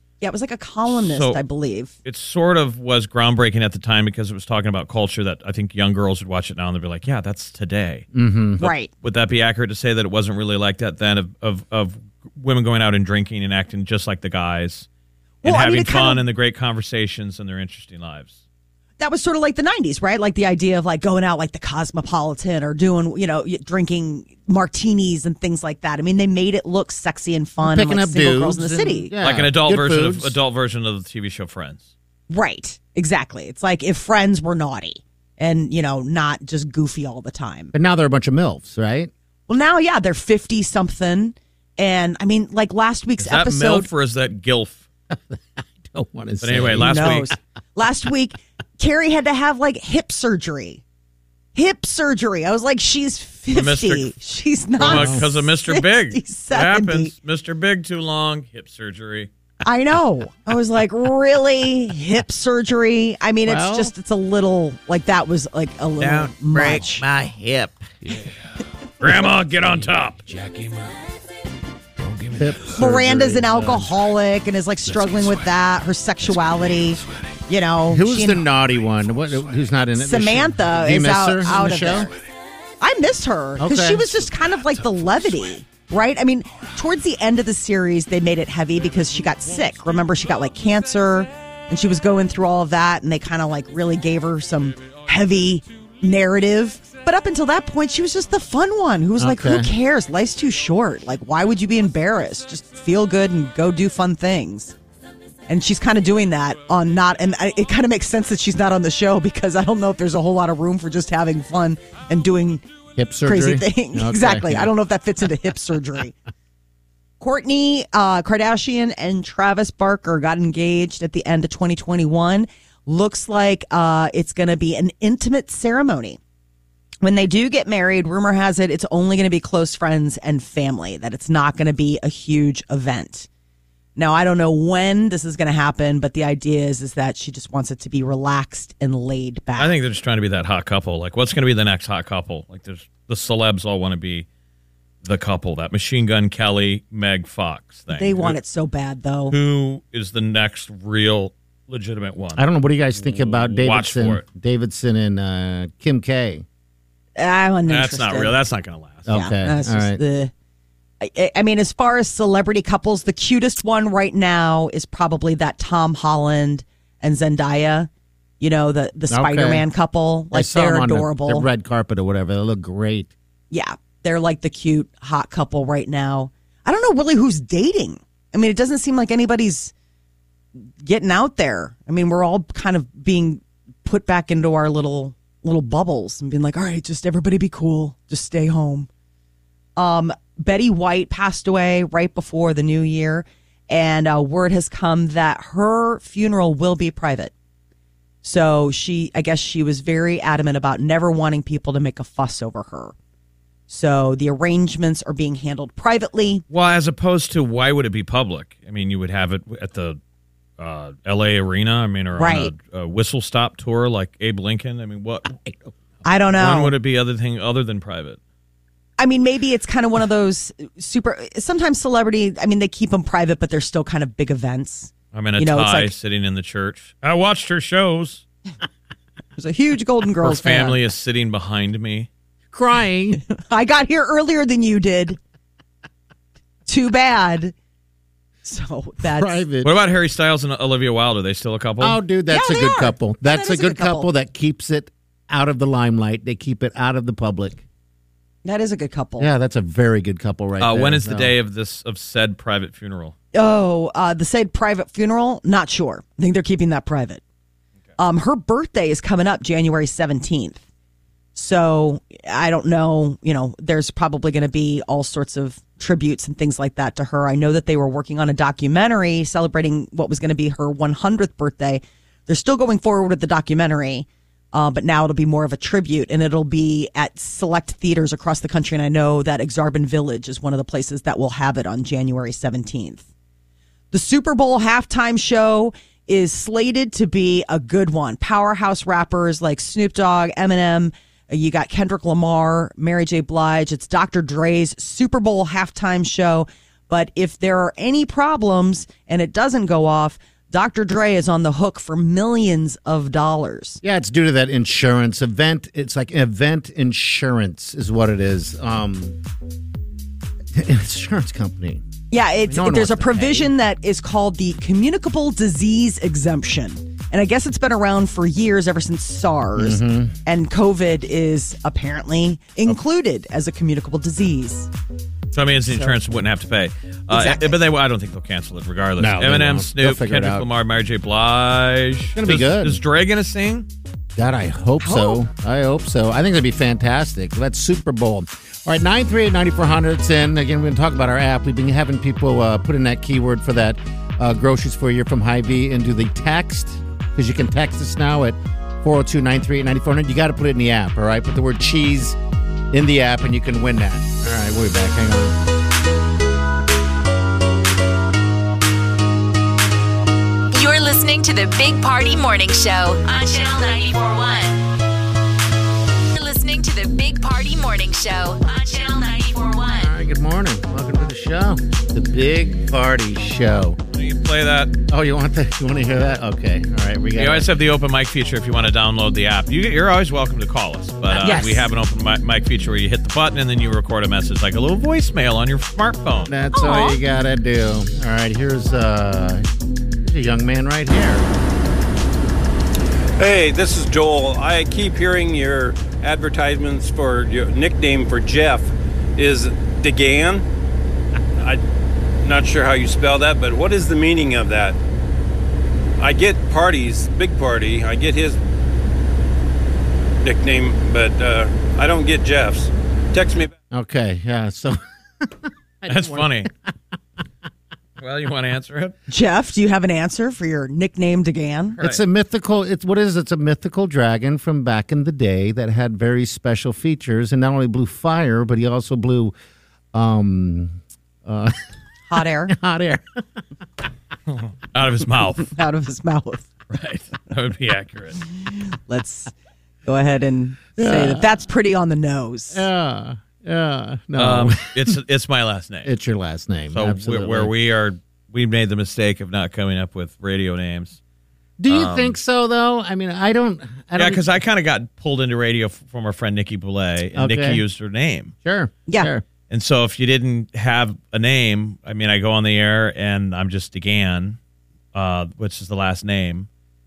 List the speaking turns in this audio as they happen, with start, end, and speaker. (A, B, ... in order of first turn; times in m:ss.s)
0:00.2-0:01.9 A
0:00.9-0:01.4 B
0:02.0-0:08.1 B
0:08.1-0:08.6 C
0:08.6-0:14.9 B
0:08.6-0:08.9 A
0:15.4-0:16.2 A
0:15.4-0:18.4 B
0:19.0-0:29.1 A
0:27.6-0:30.3 C
0:29.2-0:31.9 B
0:32.3-0:37.7 A
0:37.7-0:39.1 C
0:39.5-0:43.9 A
0:43.2-0:44.8 B
0:45.1-0:47.1 C
0:46.4-0:47.3 B
0:46.8-0:50.8 A
0:51.5-0:57.1 A
0:53.5-0:54.1 B
0:54.8-0:55.2 C
0:54.8-0:59.3 B
0:59.6-1:07.0 A
1:03.4-1:03.9 C
1:06.0-1:06.8 B
1:06.5-1:08.3 C
1:09.0-1:10.2 B
1:10.3-1:10.7 C
1:12.2-1:13.9 C
1:12.7-1:18.4 A
1:17.9-1:22.1 C
1:20.0-1:22.1 A
1:22.8-1:44.7 A
1:23.6-1:24.3 C
1:39.2-1:39.7 C
1:45.5-1:52.6 A
1:53.0-1:54.7 C
1:53.2-1:56.1 A
1:57.2-2:06.2 A
2:07.0-2:13.3 A
2:14.0-2:19.7 A
2:19.6-2:24.2 B
2:25.0-2:28.4 B
2:27.9-2:29.3 A
2:29.3-2:32.4 B
2:32.4-2:36.4 C
2:33.0-2:34.2 B
2:37.2-2:38.3 A
2:37.7-2:39.1 B
2:39.1-2:40.0 C
2:39.1-2:40.3 A
2:41.0-2:51.5 A
2:49.1-2:49.6 C
2:50.3-2:53.1 C
2:53.5-2:59.7 A
3:00.8-3:08.9 A
3:09.8-3:17.3 A
3:18.2-3:22.9 A
3:23.7-3:26.4 A
3:26.5-3:30.0 B
3:30.6-3:35.4 B
3:32.2-3:32.5 A
3:36.0-3:36.7 A
3:36.3-3:38.2 B
3:39.0-3:45.9 A
3:45.1-3:48.2 B
3:49.4-3:50.8 A
3:50.2-3:52.1 B
3:52.5-3:53.2 C
3:53.2-3:55.2 A
3:56.7-3:57.5 A
3:58.4-3:59.4 A
3:59.0-3:59.7 C
3:59.6-4:02.0 B
4:01.8-4:07.6 C
4:02.3-4:04.1 A
4:08.4-4:09.3 A
4:09.2-4:11.3 C
4:10.6-4:13.1 B
4:13.3-4:17.2 A
4:18.0-4:20.6 A
4:21.3-4:43.0 A
4:43.9-5:03.8 A
5:03.8-5:09.2 C
5:10.5-5:11.8 C
5:12.1-5:24.7 A
5:12.5-5:13.5 C
5:19.6-5:20.1 C
5:25.3-5:33.7 B
5:25.7-5:26.0 A
5:27.1-5:27.6 A
5:29.0-5:30.5 C
5:32.2-5:32.8 C
5:34.1-5:52.2 C
5:34.8-5:35.2 A
5:52.7-5:55.4 C
6:00.5-6:04.6 D
6:06.1-6:09.9 D
6:09.8-6:13.8 C
6:13.9-6:14.7 B
6:14.9-6:17.5 C
6:17.2-6:26.3 B
6:21.1-6:21.7 A
6:26.3-6:29.4 C
6:26.5-6:27.0 A
6:30.0-6:31.3 C
6:33.3-6:33.6 E
6:34.3-6:38.3 E
6:40.1-6:40.4 E
6:42.4-6:44.7 E
6:46.0-6:48.3 E
6:50.2-6:50.7 E
6:51.2-6:52.4 E
6:53.1-6:53.4 E
6:53.7-6:56.5 C
6:55.9-6:56.5 B
6:58.0-6:59.0 B
6:59.1-7:01.8 A
7:01.8-7:09.3 C
7:09.9-7:11.6 C
7:12.1-7:12.5 A
7:12.5-7:13.2 C
7:14.7-7:15.5 B
7:15.4-7:16.5 A
7:16.7-7:18.2 B
7:18.9-7:19.3 A
7:19.8-7:22.6 A
7:20.8-7:21.3 C
7:22.5-7:25.0 C
7:24.2-7:25.9 B
7:25.8-7:27.5 C
7:26.7-7:31.0 B
7:31.6-7:34.2 C
7:31.7-7:32.2 B
7:34.0-7:38.3 B
7:37.1-7:37.6 C
7:38.4-7:39.2 C
7:39.5-7:44.4 B
7:44.9-7:46.5 B